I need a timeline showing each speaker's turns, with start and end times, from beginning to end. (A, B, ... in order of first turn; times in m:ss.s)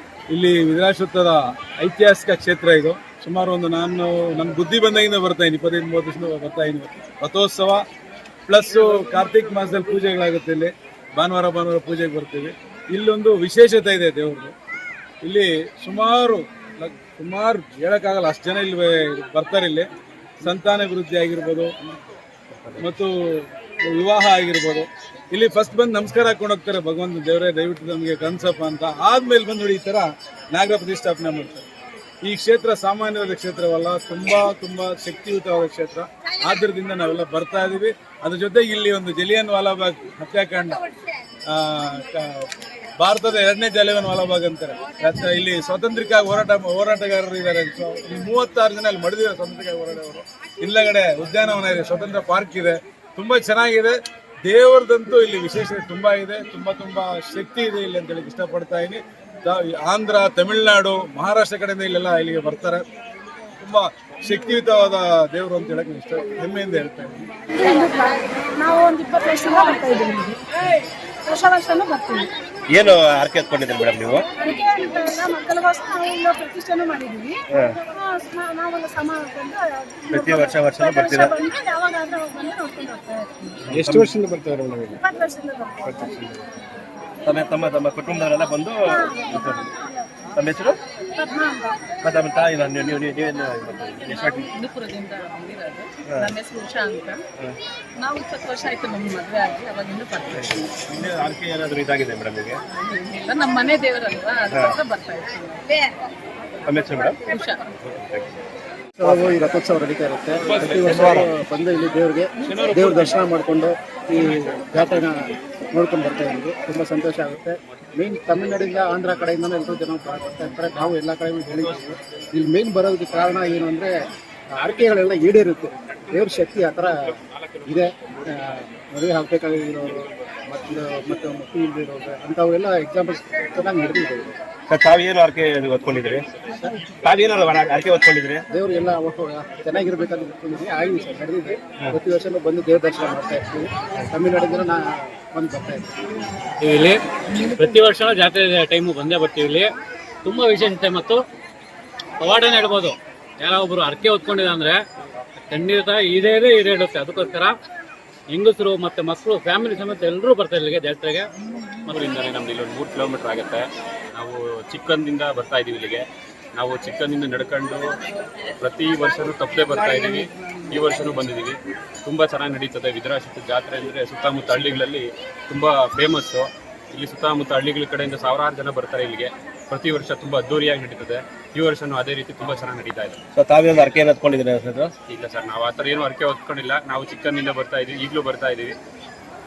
0:00.3-0:07.8 A
0:08.5-0:14.5 A
0:15.2-0:19.9 A
0:20.4-0:21.8 A
0:22.5-0:22.8 B
0:22.8-0:31.6 A
0:32.2-0:40.8 A
0:41.5-1:02.8 A
1:03.6-1:07.3 A
1:07.6-1:10.4 C
1:11.3-1:12.3 C
1:12.7-1:14.3 B
1:14.4-1:23.6 C
1:17.5-1:17.8 B
1:20.1-1:21.3 B
1:23.6-1:25.0 B
1:23.8-1:24.1 D
1:25.0-1:26.0 C
1:25.8-1:26.5 B
1:27.2-1:29.7 B
1:28.9-1:30.0 C
1:30.4-1:30.8 B
1:31.2-1:31.7 C
1:32.0-1:34.5 B
1:34.2-1:37.2 E
1:36.0-1:36.3 B
1:38.0-1:40.3 E
1:40.4-1:42.6 B
1:42.7-1:45.6 E
1:44.5-1:44.8 B
1:46.6-1:47.2 B
1:47.3-1:47.5 E
1:47.8-1:48.3 B
1:49.0-2:03.9 D
1:49.0-1:49.3 B
1:50.5-1:51.3 B
2:04.5-2:06.9 D
2:07.6-2:14.3 D
2:14.7-2:16.3 B
2:16.5-2:16.8 D
2:17.0-2:18.4 B
2:18.5-2:26.1 D
2:26.6-2:27.0 F
2:27.6-2:29.7 F
2:30.2-2:31.2 F
2:32.2-2:34.8 F
2:35.5-2:37.6 F
2:38.3-2:41.3 F
2:41.9-2:47.8 G
2:48.6-3:03.2 G
3:03.4-3:04.9 B
3:05.1-3:08.8 G